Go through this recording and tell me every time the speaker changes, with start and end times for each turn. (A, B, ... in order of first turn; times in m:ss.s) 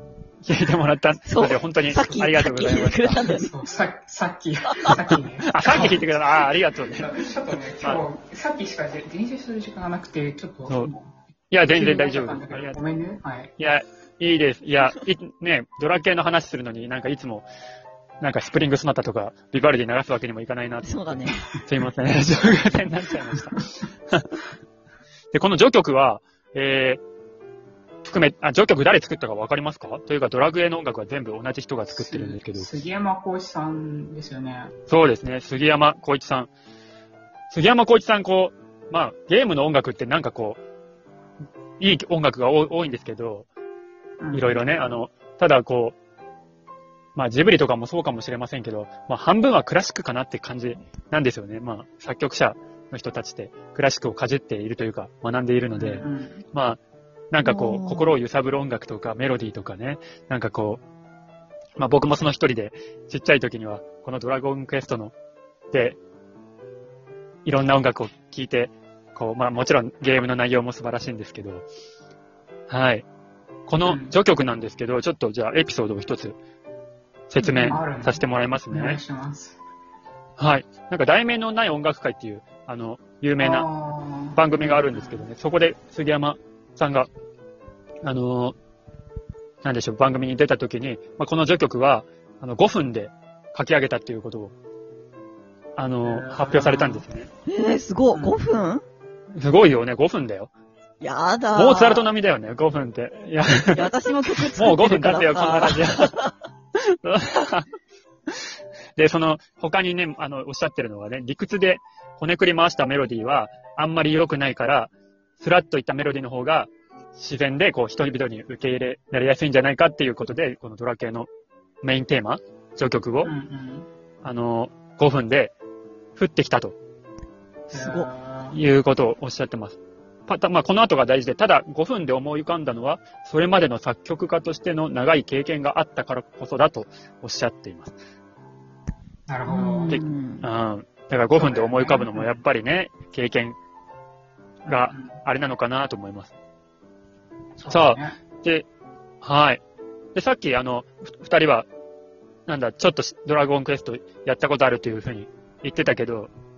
0:00.4-0:03.3 A
0:01.3-0:03.5 B
0:03.3-0:11.1 C
0:05.5-0:07.1 A
0:11.5-0:12.8 A
0:11.7-0:13.5 C
0:13.6-0:17.5 A
0:18.2-0:24.3 A
0:20.8-0:21.4 B
0:25.3-0:27.0 A
0:28.0-0:32.7 A
0:31.9-0:34.7 C
0:34.9-0:36.5 A
0:37.5-0:40.6 A
0:41.8-0:43.5 A
0:44.2-0:44.6 C
0:44.3-0:46.0 A
0:47.2-0:56.8 A
0:55.8-0:56.4 C
0:57.3-1:00.8 A
0:57.4-0:58.2 B
1:01.8-1:05.1 A
1:05.7-1:06.0 A
1:07.4-1:11.7 A
1:12.7-1:13.1 A
1:13.7-1:16.4 A
1:13.8-1:14.1 C
1:17.3-1:19.0 A
1:17.4-1:17.8 B
1:17.6-1:19.6 C
1:20.4-1:23.7 A
1:23.4-1:25.3 C
1:24.4-1:27.1 A
1:28.0-1:28.6 A
1:29.6-1:34.5 A
1:35.8-1:37.3 A
1:36.0-1:37.0 C
1:37.5-1:38.8 B
1:39.3-1:40.5 A
1:41.0-1:42.1 B
1:41.6-1:46.2 A
1:43.7-1:46.3 B
1:46.8-1:47.7 A
1:49.0-2:01.3 A
2:01.8-2:03.3 A
2:03.2-2:03.9 C
2:04.2-2:05.5 A
2:06.2-2:06.8 A
2:07.7-2:08.1 B
2:07.7-2:08.6 C
2:08.5-2:18.0 A
2:19.3-2:20.0 C
2:19.5-2:20.5 B
2:19.9-2:23.6 A
2:21.3-2:22.4 C
2:24.6-2:25.2 C
2:24.7-2:26.3 A
2:27.6-2:28.2 C
2:27.7-2:28.7 A
2:29.2-2:29.6 A
2:30.2-2:31.7 A
2:32.5-2:36.3 A